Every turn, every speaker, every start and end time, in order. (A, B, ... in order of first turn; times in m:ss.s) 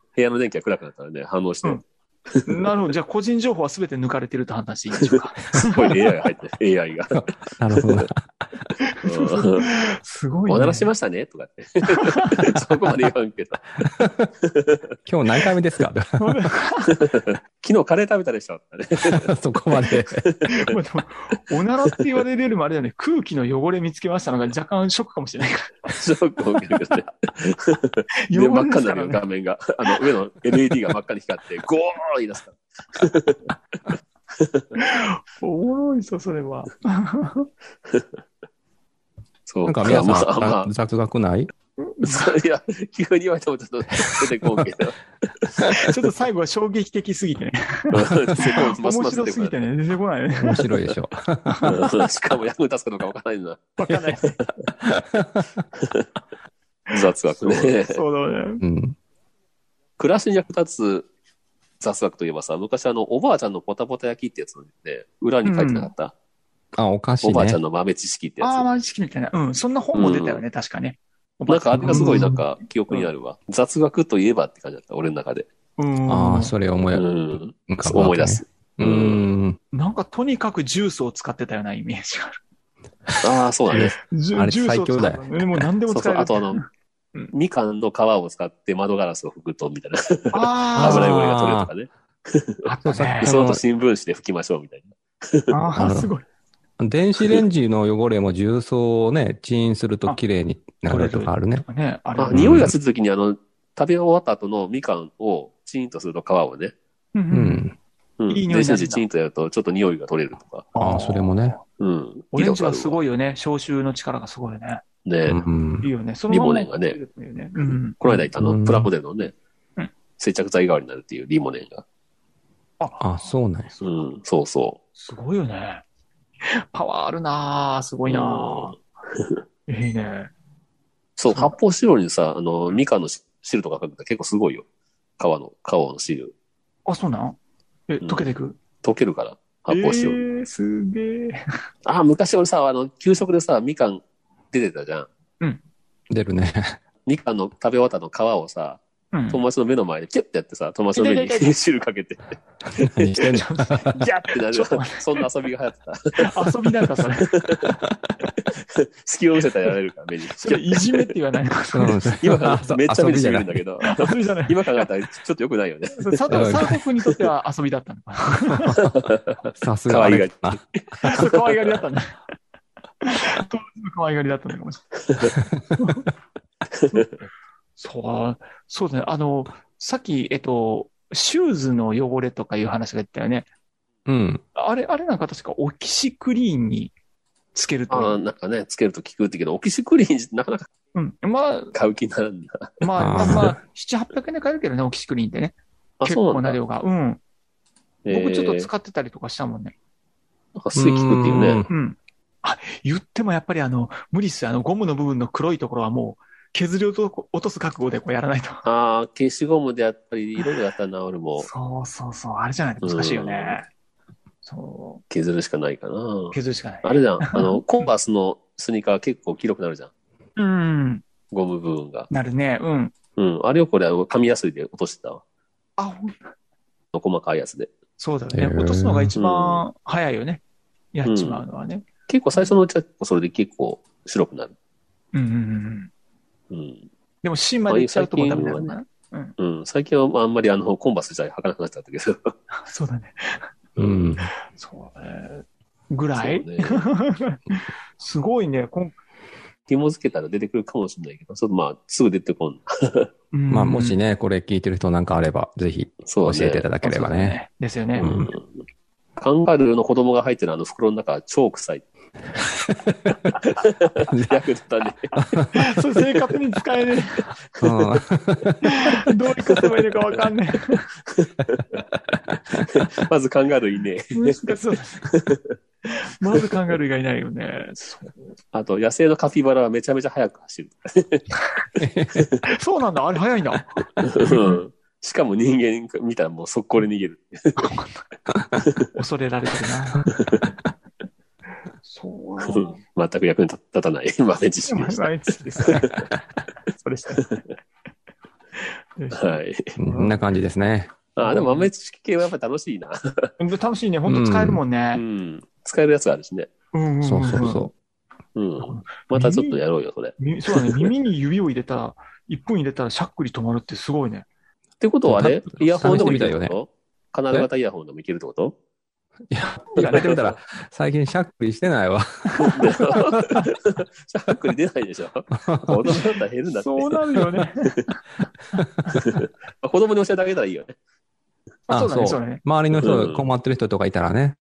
0:00.2-0:02.7 A
0:02.4-0:05.8 B
0:05.1-0:08.1 A
0:07.6-0:08.3 C
0:08.8-0:10.8 B
0:09.0-0:09.9 A
0:10.5-0:13.8 A
0:11.9-0:12.4 B
0:14.0-0:14.3 C
0:14.4-0:14.8 A
0:15.0-0:16.4 C
0:16.2-0:17.0 B
0:17.0-0:19.3 A
0:19.0-0:20.2 C
0:19.9-0:20.7 A
0:20.5-0:25.8 B
0:26.0-0:33.4 A
0:28.3-0:29.2 B
0:34.4-0:34.6 A
0:34.8-0:37.5 B
0:39.5-0:40.7 A
0:39.6-0:41.5 C
0:41.8-0:42.3 B
0:42.0-0:45.8 A
0:45.7-0:50.7 B
0:47.9-0:49.6 A
0:50.4-0:51.9 C
0:51.6-0:53.7 A
0:53.8-0:54.4 B
0:54.4-0:54.7 A
0:54.8-0:55.6 C
0:55.8-0:56.1 A
0:56.9-0:58.0 A
0:57.8-0:58.6 B
0:58.6-0:59.0 C
1:00.0-1:01.1 A
1:01.8-1:06.1 A
1:05.4-1:05.9 B
1:06.8-1:07.6 C
1:07.2-1:08.6 A
1:08.4-1:13.1 B
1:09.9-1:10.4 A
1:11.5-1:15.5 A
1:11.8-1:12.4 C
1:15.8-1:16.5 B
1:16.1-1:19.6 C
1:16.9-1:19.2 A
1:19.7-1:22.4 B
1:23.1-1:25.4 C
1:23.2-1:24.0 A
1:24.1-1:27.3 B
1:25.9-1:26.6 A
1:27.3-1:32.6 A
1:30.3-1:31.1 B
1:30.8-1:31.7 C
1:32.6-1:33.3 B
1:32.8-1:33.6 C
1:33.2-1:35.5 A
1:35.5-1:36.2 B
1:35.8-1:36.1 C
1:36.8-1:41.6 C
1:40.8-1:42.7 B
1:42.2-1:46.7 A
1:42.3-1:42.7 C
1:47.1-1:47.6 B
1:47.3-1:47.7 C
1:48.2-1:50.7 A
1:48.3-1:49.0 B
1:50.7-1:51.6 B
1:50.8-1:51.6 C
1:51.8-1:53.0 A
1:52.3-1:54.8 B
1:55.0-1:55.4 A
1:55.2-1:55.9 C
1:55.8-1:58.2 B
1:56.3-1:57.0 A
1:58.0-1:59.3 A
1:58.4-1:58.9 C
2:00.2-2:01.8 A
2:02.8-2:04.0 B
2:03.0-2:03.7 C
2:03.8-2:04.8 A
2:05.0-2:05.8 B
2:06.4-2:08.7 B
2:08.1-2:09.4 A
2:09.7-2:10.3 B
2:11.2-2:14.6 A
2:11.3-2:11.5 B
2:15.2-2:16.3 A
2:16.8-2:17.4 B
2:17.9-2:18.6 B
2:18.0-2:18.3 A
2:18.8-2:20.2 A
2:19.7-2:21.6 B
2:21.8-2:25.1 A
2:26.1-2:26.8 C
2:27.0-2:33.4 A
2:29.1-2:29.4 B
2:30.9-2:31.5 B
2:32.8-2:33.8 C
2:33.2-2:35.2 B
2:33.9-2:37.8 A
2:36.2-2:37.3 B
2:37.8-2:38.1 C
2:38.5-2:41.1 A
2:40.4-2:42.3 B
2:41.7-2:43.6 C
2:42.2-2:46.7 A
2:43.8-2:44.8 B
2:45.9-2:48.8 B
2:46.3-2:46.8 C
2:48.8-2:51.3 A
2:49.6-2:50.6 C
2:51.0-2:52.2 B
2:53.0-2:54.8 B
2:55.8-2:56.1 B
2:56.9-2:57.2 B
2:57.8-3:03.5 B
3:04.0-3:04.4 C
3:04.5-3:06.9 B
3:07.5-3:08.2 B
3:07.9-3:10.7 A
3:10.9-3:11.7 B
3:11.7-3:13.4 A
3:12.8-3:17.2 B
3:13.0-3:13.6 C
3:16.0-3:16.6 A
3:18.0-3:18.7 A
3:18.1-3:19.7 B
3:20.6-3:21.7 A
3:20.7-3:21.7 C
3:21.7-3:28.6 B
3:28.6-3:31.5 A
3:31.4-3:33.7 B
3:32.8-3:33.6 A
3:34.4-3:35.0 B
3:35.1-3:39.9 A
3:36.3-3:37.8 B
3:40.4-3:41.0 B
3:41.3-3:42.1 A
3:42.1-3:42.9 B
3:43.2-3:45.2 A
3:45.8-3:46.3 B
3:46.9-3:47.7 A
3:48.0-3:50.4 B
3:48.3-3:49.1 C
3:49.2-3:49.6 A
3:50.9-3:51.8 B
3:51.0-3:51.4 A
3:52.1-3:54.5 A
3:55.1-3:55.9 B
3:56.5-3:56.9 A
3:57.2-3:59.3 B
3:57.7-3:58.8 A
3:59.4-4:02.3 A
4:02.6-4:03.5 B
4:03.8-4:04.1 A
4:03.8-4:04.3 C
4:04.4-4:09.0 B
4:06.2-4:06.9 A
4:09.7-4:13.1 A
4:13.3-4:14.0 B
4:13.5-4:17.4 C
4:16.0-4:16.6 A
4:16.8-4:18.3 B
4:18.0-4:18.3 C
4:18.0-4:18.5 A
4:19.2-4:21.9 A
4:22.6-4:23.3 C
4:23.4-4:25.1 A
4:24.1-4:24.4 C
4:25.3-4:25.6 C
4:25.5-4:27.3 B
4:27.6-4:27.9 A
4:27.6-4:28.8 C
4:28.6-4:30.9 B
4:31.1-4:31.8 A
4:32.3-4:32.6 C
4:32.7-4:34.5 A
4:34.1-4:35.1 B
4:35.0-4:35.5 A
4:35.9-4:38.3 B
4:38.5-4:41.3 A
4:41.8-4:42.4 A
4:41.8-4:42.2 C
4:42.5-4:43.7 B
4:44.0-4:47.7 A
4:44.2-4:44.6 B
4:47.6-4:48.0 B
4:48.9-4:50.1 B
4:50.2-4:50.5 A
4:51.8-4:52.8 B
4:52.4-4:56.0 A
4:54.7-4:55.9 B
4:56.8-4:57.2 B
4:57.2-4:57.4 A
4:59.0-5:00.2 B
4:59.1-4:59.7 A
4:59.8-5:01.0 C
5:01.2-5:03.3 A
5:01.2-5:01.7 B
5:03.4-5:05.0 B
5:04.1-5:04.6 C
5:04.9-5:06.5 A
5:06.7-5:07.7 B
5:07.0-5:07.7 C
5:08.4-5:10.9 A
5:08.6-5:09.6 B
5:10.2-5:14.2 B
5:14.8-5:18.6 A
5:15.1-5:16.5 C
5:16.0-5:16.3 B
5:19.3-5:23.3 C
5:19.7-5:20.3 B
5:19.8-5:20.2 A
5:22.3-5:22.6 B
5:22.4-5:27.0 A
5:25.4-5:25.8 C
5:26.5-5:28.0 B
5:28.9-5:30.7 A
5:31.7-5:32.4 B
5:31.7-5:34.4 C
5:32.8-5:33.2 A